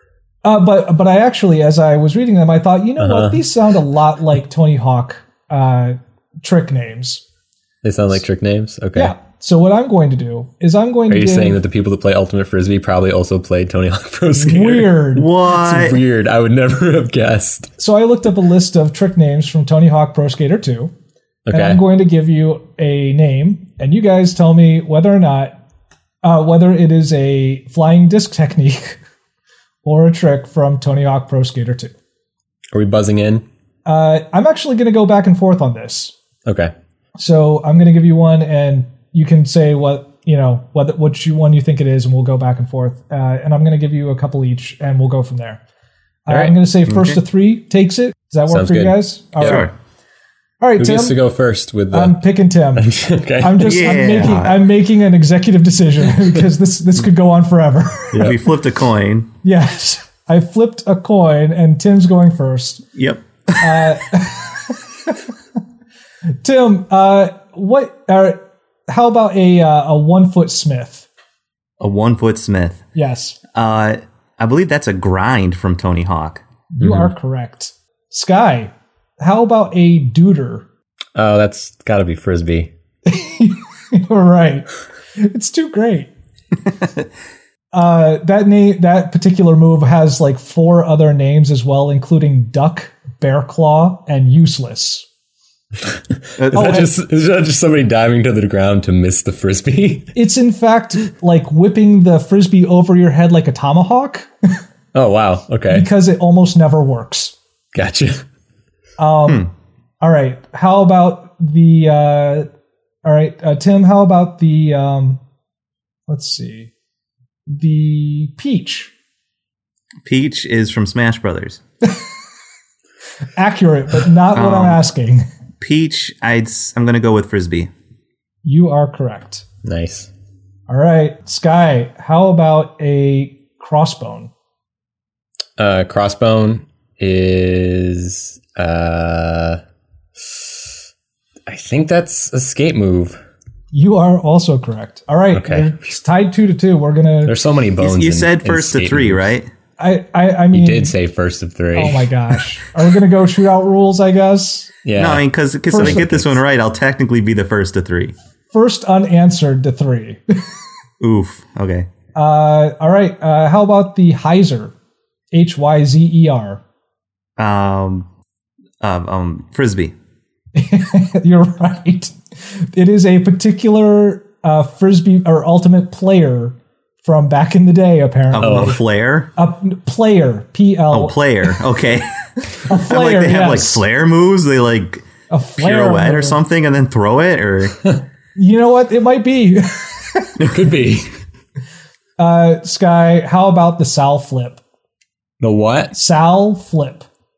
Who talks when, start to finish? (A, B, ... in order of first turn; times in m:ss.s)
0:00.4-0:07.2 A
0:03.0-0:03.4 B
0:07.8-0:09.1 B
0:09.0-0:11.6 A
0:11.1-0:17.7 B
0:14.3-0:15.4 A
0:15.2-0:16.0 C
0:17.8-0:20.9 A
0:21.5-0:21.8 B
0:21.5-0:25.6 A
0:26.2-0:29.0 A
0:29.8-0:31.9 A
0:32.7-0:33.4 B
0:33.8-0:36.1 A
0:36.5-0:36.7 B
0:37.2-0:45.6 A
0:46.3-0:49.7 A
0:46.3-0:46.6 B
0:46.9-0:47.2 C
0:48.5-0:49.7 B
0:49.4-0:49.7 C
0:50.6-0:51.2 A
0:50.8-0:52.2 B
0:51.9-0:52.9 A
0:52.8-0:53.9 B
0:53.4-0:58.3 A
0:53.6-0:54.6 C
0:58.2-0:59.3 C
0:59.4-1:02.8 A
1:03.0-1:03.9 C
1:03.6-1:05.2 A
1:06.4-1:11.1 A
1:11.8-1:12.8 C
1:13.0-1:13.4 A
1:13.5-1:16.4 C
1:16.7-1:20.6 A
1:21.2-1:22.7 B
1:23.1-1:26.1 A
1:27.7-1:35.1 A
1:36.4-1:36.8 C
1:36.4-1:40.1 B
1:36.5-1:36.9 A
1:40.2-1:44.3 A
1:44.9-1:45.9 B
1:45.7-1:47.3 A
1:47.7-1:48.2 B
1:49.0-1:52.5 A
1:53.0-1:55.2 A
1:56.1-1:56.7 A
1:57.5-1:58.9 A
2:00.0-2:01.6 C
2:03.4-2:05.2 A
2:04.3-2:04.8 C
2:05.6-2:07.7 C
2:08.4-2:09.4 A
2:09.6-2:10.1 B
2:10.7-2:14.3 A
2:15.6-2:19.6 B
2:20.2-2:20.5 B
2:21.5-2:23.2 B
2:23.7-2:27.4 A
2:25.3-2:25.7 B
2:27.2-2:29.3 B
2:27.8-2:29.5 C
2:29.8-2:30.9 A
2:30.5-2:32.1 B
2:31.8-2:34.8 A
2:34.8-2:36.4 B
2:35.0-2:38.1 C
2:35.7-2:36.1 A
2:38.5-2:40.2 A
2:41.0-2:41.9 C
2:42.2-2:44.7 A
2:45.3-2:46.6 A
2:47.4-2:48.1 C
2:48.8-2:49.9 C
2:50.6-2:58.8 A
2:58.3-2:59.3 C
2:58.4-2:58.8 B
2:59.4-3:01.6 A
3:00.9-3:05.1 C
3:02.6-3:03.8 A
3:05.3-3:06.4 A
3:05.6-3:07.8 C
3:08.4-3:10.4 A
3:10.4-3:11.1 B
3:12.2-3:14.6 A
3:15.4-3:15.9 B
3:15.9-3:17.1 A